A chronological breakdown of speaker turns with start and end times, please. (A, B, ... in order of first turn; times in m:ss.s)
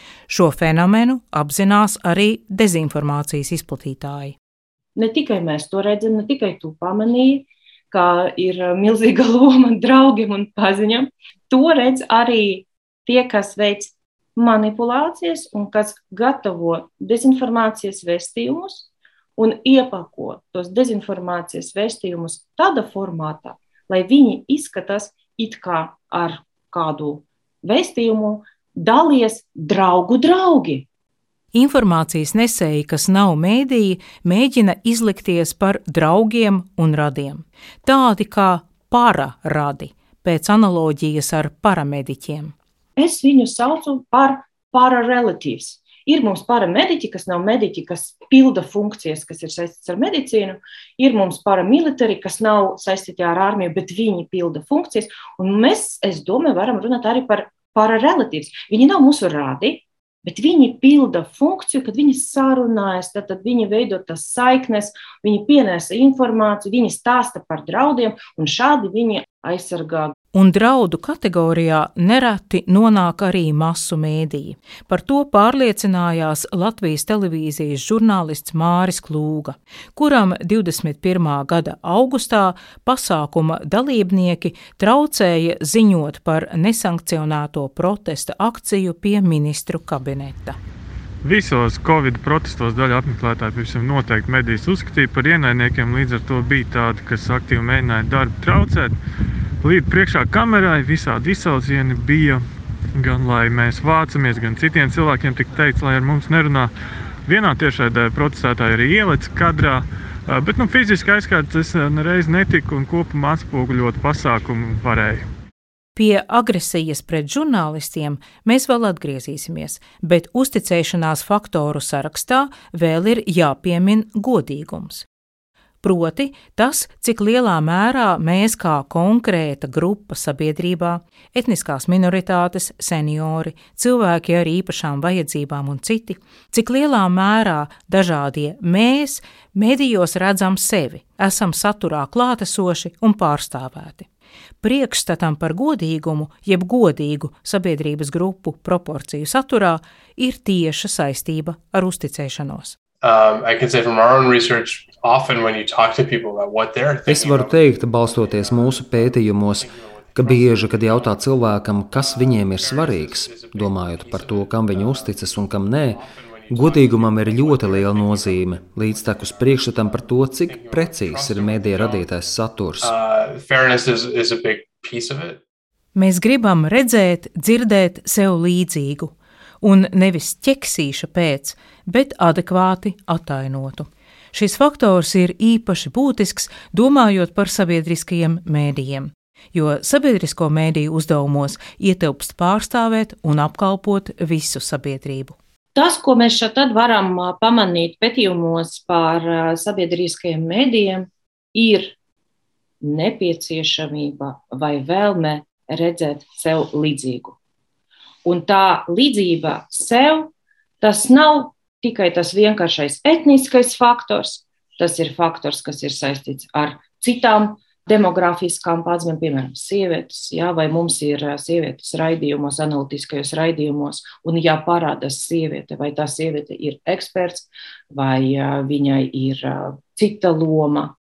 0:00.3-0:04.4 A
0:04.9-0:30.8 B
0:31.5-0:42.5 A
0:43.0-1:10.1 B
1:10.3-1:30.6 A
1:31.2-1:39.0 C
1:39.6-1:42.4 C
1:42.9-1:46.7 C
1:47.3-1:55.2 C
1:56.0-2:05.1 A
2:05.8-2:24.1 A
2:24.6-2:32.8 A
2:33.0-2:52.1 D
2:37.1-2:52.9 E
2:52.8-2:55.4 D
2:55.9-3:15.4 A
3:15.7-3:21.9 B
3:22.8-3:27.4 B
3:28.2-3:50.9 B